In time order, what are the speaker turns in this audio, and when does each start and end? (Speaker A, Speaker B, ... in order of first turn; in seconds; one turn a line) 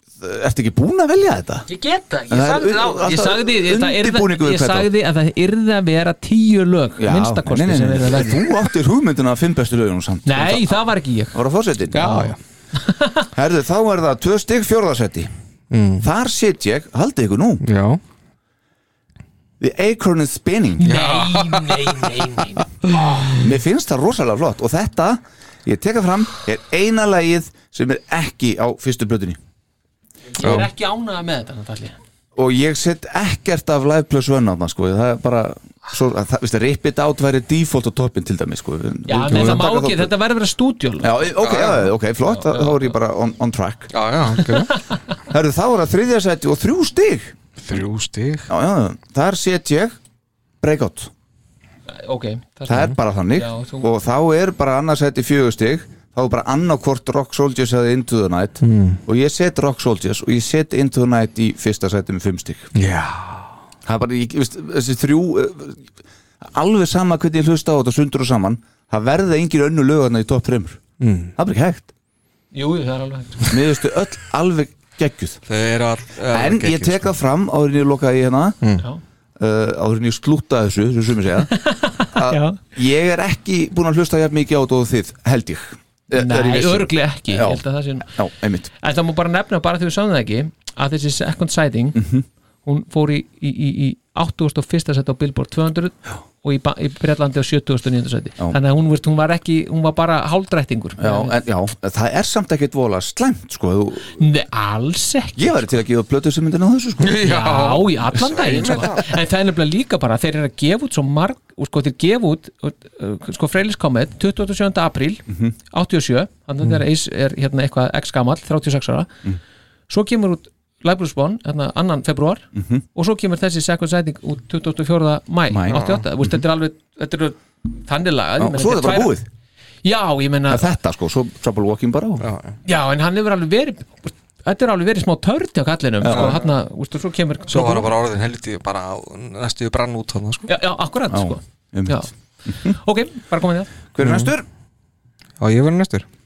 Speaker A: 0.2-1.7
Speaker B: 1.7-8.5
Speaker A: 2.3-4.9
Speaker A: 7.0-10.8
Speaker B: 10.2-11.3
Speaker A: 11.3-12.0
Speaker C: 11.9-12.4
Speaker B: 12.0-13.3
Speaker A: 13.3-15.3
Speaker C: 15.7-16.0
Speaker A: 16.0-17.6
Speaker C: 17.6-18.0
Speaker A: 19.6-20.9
Speaker B: 20.8-23.3
Speaker C: 20.9-22.2
Speaker A: 23.4-29.4
Speaker B: 30.3-32.0
Speaker C: 30.4-30.7
Speaker A: 32.4-40.1
Speaker B: 39.1-41.3
Speaker C: 39.3-39.6
Speaker A: 41.0-43.9
Speaker C: 41.4-41.9
Speaker B: 42.2-42.9
Speaker C: 43.9-44.9
Speaker B: 44.4-45.0
Speaker A: 45.3-47.3
Speaker C: 47.6-48.5
Speaker A: 48.5-50.0
Speaker A: 50.6-51.1
Speaker B: 51.9-53.9
Speaker A: 52.7-62.7
Speaker C: 58.6-59.0
Speaker C: 62.8-63.5
Speaker A: 63.8-65.9
Speaker A: 66.4-70.8
Speaker C: 71.0-71.3
Speaker A: 71.3-71.9
Speaker B: 72.5-73.5
Speaker A: 73.5-75.4
Speaker C: 75.5-77.1
Speaker A: 76.3-78.6
Speaker A: 79.4-81.5
Speaker B: 81.5-82.6
Speaker A: 82.1-88.7
Speaker B: 86.1-88.1
Speaker B: 88.8-92.0
Speaker A: 91.9-92.2
Speaker B: 92.6-101.3
Speaker A: 101.0-104.2
Speaker B: 104.2-105.7
Speaker A: 105.3-107.2
Speaker C: 107.0-109.0
Speaker B: 107.2-119.1
Speaker A: 115.3-115.5
Speaker B: 119.9-129.1
Speaker A: 122.5-122.8
Speaker A: 125.5-126.3
Speaker C: 125.7-126.0
Speaker A: 128.4-129.3
Speaker B: 129.8-130.6
Speaker A: 130.5-132.3
Speaker C: 132.2-132.5
Speaker B: 132.6-137.9
Speaker A: 136.0-136.4
Speaker C: 136.1-136.4
Speaker C: 137.5-140.5
Speaker B: 140.5-142.1
Speaker A: 141.1-142.8
Speaker B: 142.6-143.7
Speaker A: 143.9-144.4
Speaker C: 144.0-144.3
Speaker C: 145.4-146.0